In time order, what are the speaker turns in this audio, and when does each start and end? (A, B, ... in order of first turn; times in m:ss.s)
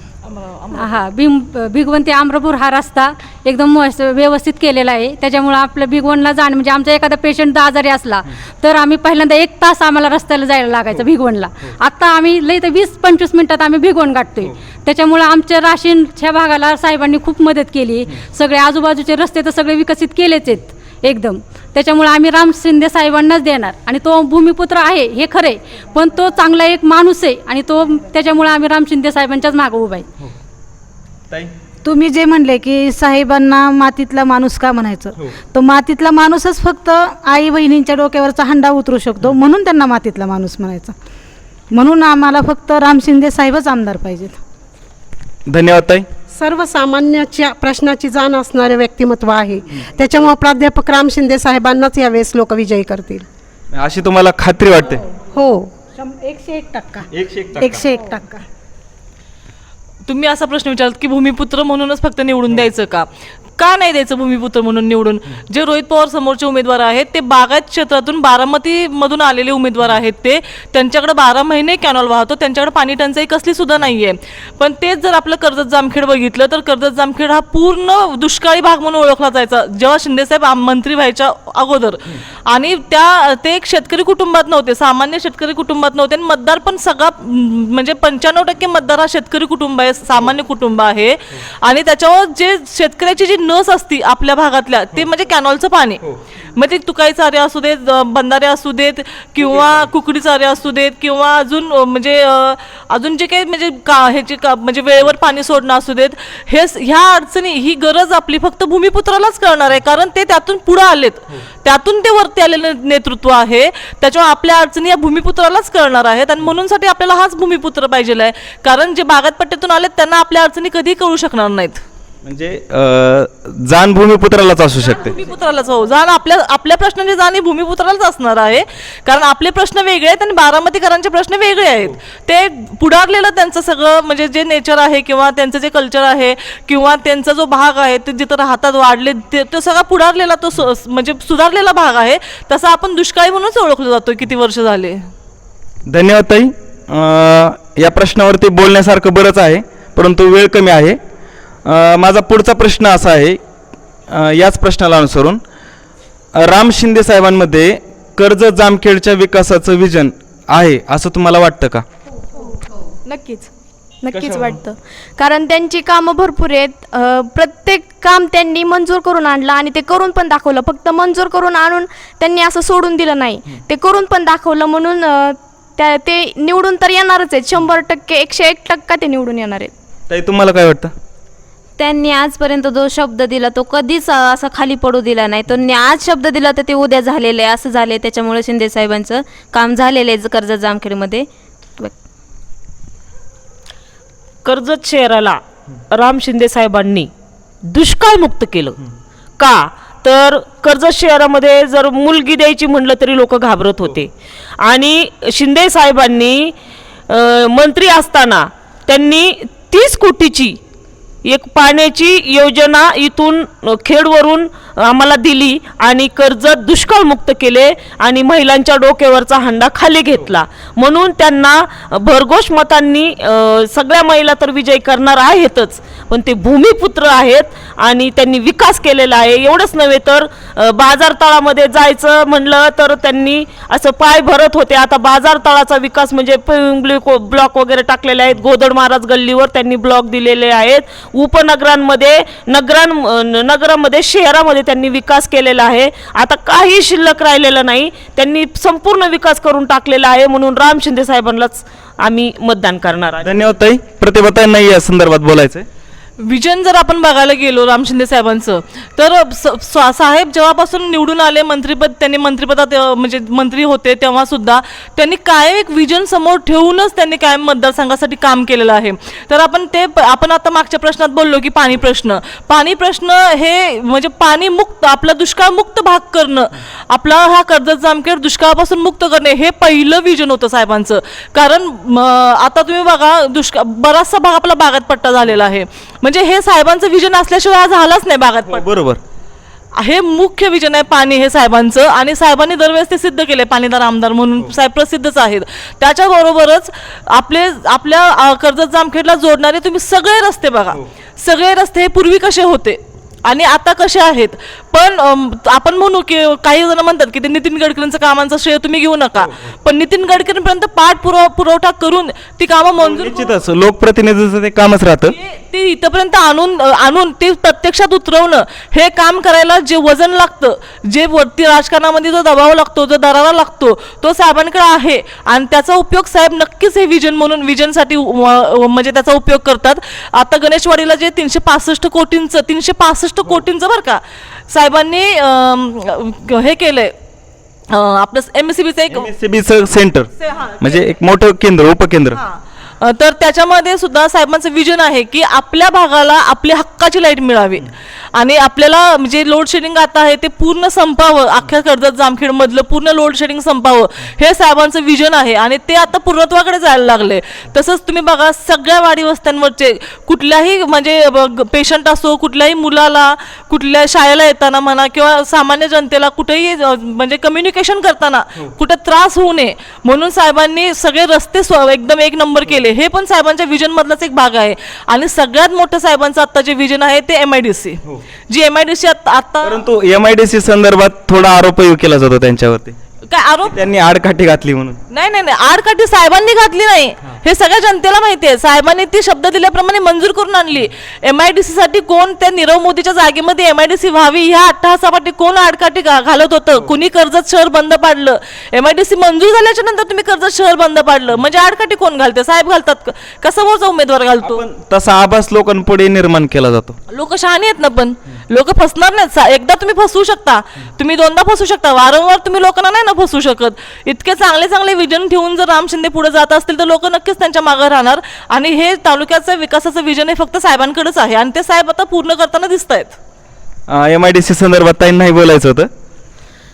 0:00.3-0:01.0 A
0:00.7-0:30.1 B
0:31.8-0:40.9 C
0:41.7-0:44.4 C
0:45.5-0:46.1 D
0:46.3-0:53.2 E
0:53.7-0:55.0 D
0:55.3-0:55.7 E
0:56.1-0:57.0 C
0:57.1-0:57.8 D
0:57.6-0:58.2 C
0:57.7-0:58.4 E
1:00.0-2:01.8 A
1:39.4-1:39.8 D
2:02.2-2:05.1 D
2:05.0-2:25.1 A
2:25.9-2:31.0 D
2:31.6-2:33.4 D
2:34.1-2:35.4 D
2:36.4-2:41.8 D
2:43.1-2:43.5 F
2:44.0-2:59.7 F
2:44.1-2:44.6 D
3:00.1-3:00.9 D
3:01.8-3:11.9 G
3:14.4-3:17.1 H
3:17.6-3:18.8 H
3:19.4-3:26.5 H
3:27.1-3:30.6 H
3:31.2-4:13.3 H
4:13.2-4:15.7 D
4:16.2-4:48.6 A
4:48.5-4:49.0 D
4:49.8-5:13.3 A
5:12.8-5:15.1 D
5:15.1-5:36.9 A
5:37.7-5:39.1 A
5:38.9-5:42.2 D
5:40.2-5:40.8 A
5:42.2-6:19.6 A
6:19.4-6:22.8 D
6:23.1-6:23.5 A
6:23.5-6:24.8 D
6:24.9-6:44.4 A
6:44.2-6:46.8 D
6:46.9-7:03.0 A
7:03.7-7:05.7 D